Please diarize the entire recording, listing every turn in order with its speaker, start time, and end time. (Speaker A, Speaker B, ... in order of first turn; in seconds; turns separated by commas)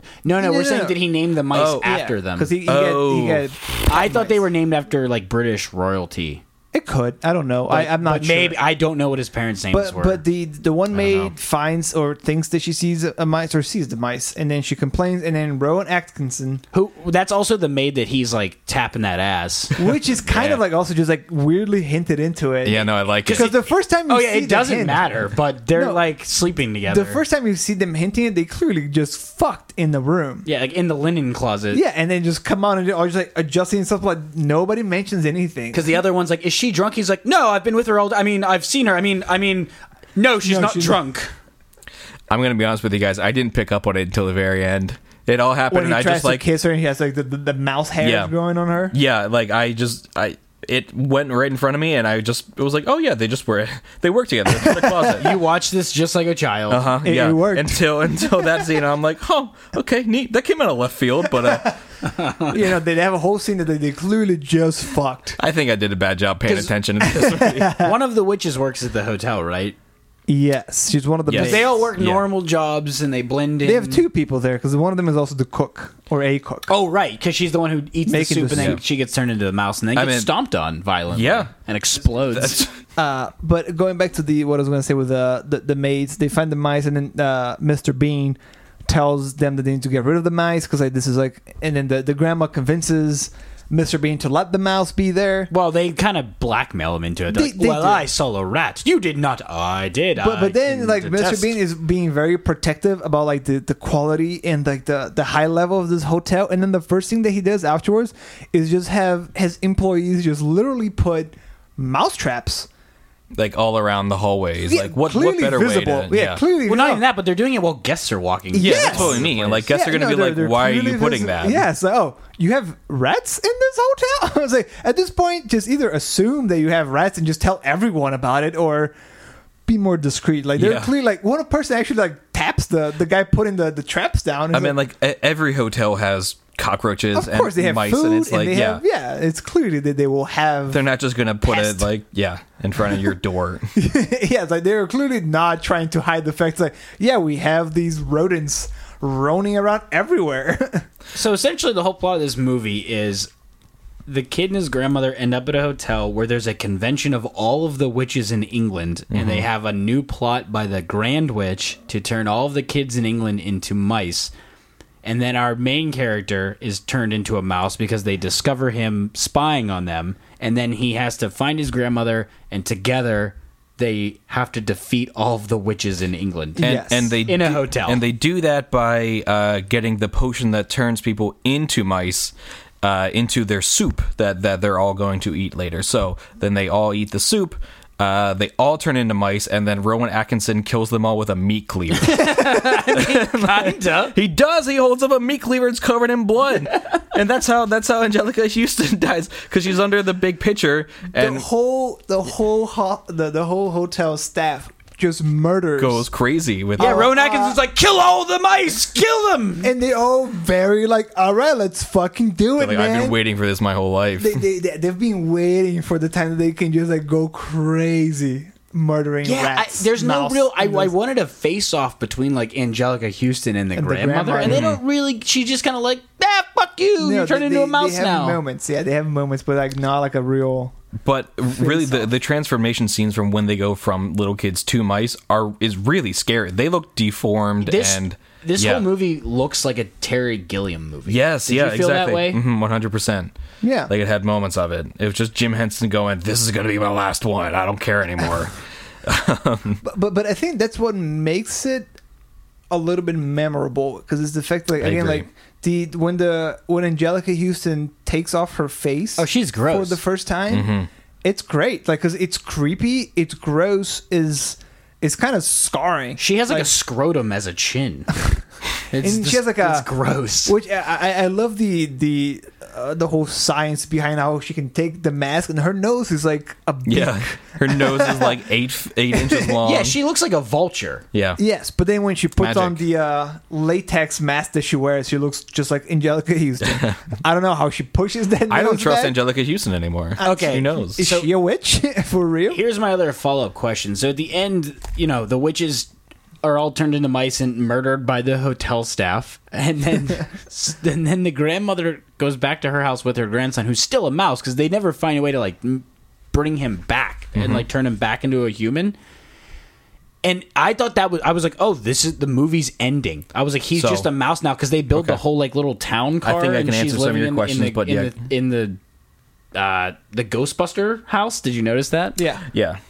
Speaker A: 0.2-2.5, Speaker B: 0.4-1.1, Speaker C: 1.5-1.9, Speaker B: 1.8-4.4, Speaker C: 2.6-3.5, Speaker A: 3.9-6.4, Speaker B: 6.7-8.6, Speaker A: 7.7-10.2, Speaker B: 9.7-16.6, Speaker C: 11.0-11.3, Speaker A: 16.7-19.8, Speaker B: 19.8-26.0, Speaker C: 20.3-20.6, Speaker C: 22.6-23.5, Speaker A: 23.2-27.2, Speaker B: 26.9-30.5, Speaker A: 30.4-31.8, Speaker B: 31.7-36.0, Speaker A: 35.7-41.3, Speaker B: 40.4-41.0, Speaker C: 42.3-46.5, Speaker B: 45.7-49.0, Speaker C: 48.0-48.3, Speaker C: 48.9-55.4, Speaker A: 55.2-56.9, Speaker C: 56.7-61.8, Speaker B: 57.0-58.7, Speaker B: 61.4-61.8, Speaker A: 62.0-62.5, Speaker B: 62.5-65.4, Speaker C: 65.4-67.8, Speaker B: 67.0-68.0, Speaker A: 67.8-69.8, Speaker B: 70.3-71.9, Speaker C: 71.3-72.3, Speaker A: 71.3-74.0, Speaker B: 73.6-76.7, Speaker A: 76.7-82.6, Speaker B: 78.1-78.8, Speaker C: 80.0-80.3, Speaker C: 81.1-81.5, Speaker C: 82.3-82.7, Speaker B: 83.0-95.5, Speaker A: 95.5-101.6, Speaker B: 97.3-98.1, Speaker B: 100.2-112.7, Speaker C: 113.3-116.4, Speaker B: 114.7-117.0, Speaker A: 116.6-119.7, Speaker B: 118.5-128.9, Speaker C: 118.6-121.7, Speaker B: 129.7-134.8, Speaker C: 130.6-130.9, Speaker C: 134.5-138.8, Speaker B: 137.1-140.9, Speaker C: 140.7-143.7, Speaker B: 141.4-141.9, Speaker B: 143.8-150.8, Speaker A: 151.1-153.3, Speaker A: 154.1-164.3, Speaker C: 159.1-159.5, Speaker A: 165.0-178.0, Speaker B: 176.6-177.2, Speaker C: 176.6-201.5, Speaker A: 192.0-194.2, Speaker B: 201.1-206.1, Speaker C: 205.8-207.1, Speaker B: 206.8-207.6, Speaker A: 206.8-209.7, Speaker B: 209.6-213.2, Speaker C: 212.6-214.4, Speaker B: 214.2-220.9, Speaker A: 219.2-228.4, Speaker B: 223.8-224.7, Speaker C: 224.4-224.8, Speaker B: 227.0-230.8, Speaker C: 231.0-238.9, Speaker B: 231.5-232.1, Speaker A: 237.6-242.4, Speaker C: 241.1-243.3, Speaker B: 243.6-243.9, Speaker C: 243.9-249.8, Speaker B: 249.8-251.9, Speaker B: 252.7-260.7, Speaker C: 254.8-255.3, Speaker A: 259.2-260.0, Speaker C: 260.5-260.9, Speaker B: 261.2-266.7, Speaker A: 266.2-268.1, Speaker A: 268.9-270.5, Speaker B: 269.0-269.9, Speaker B: 270.4-278.4, Speaker C: 276.9-280.0, Speaker B: 279.1-279.6, Speaker A: 279.6-281.1, Speaker C: 281.1-281.4, Speaker B: 281.4-289.2, Speaker C: 282.4-282.8, Speaker C: 286.6-287.0, Speaker C: 288.5-291.0, Speaker B: 290.2-292.6, Speaker A: 290.2-291.3, Speaker A: 292.5-295.9, Speaker A: 296.4-309.0, Speaker C: 307.4-307.7, Speaker A: 310.2-318.8, Speaker C: 313.7-314.1, Speaker C: 314.9-315.2, Speaker C: 316.2-318.2, Speaker A: 319.5-322.2, Speaker B: 322.2-322.4, Speaker C: 322.5-322.8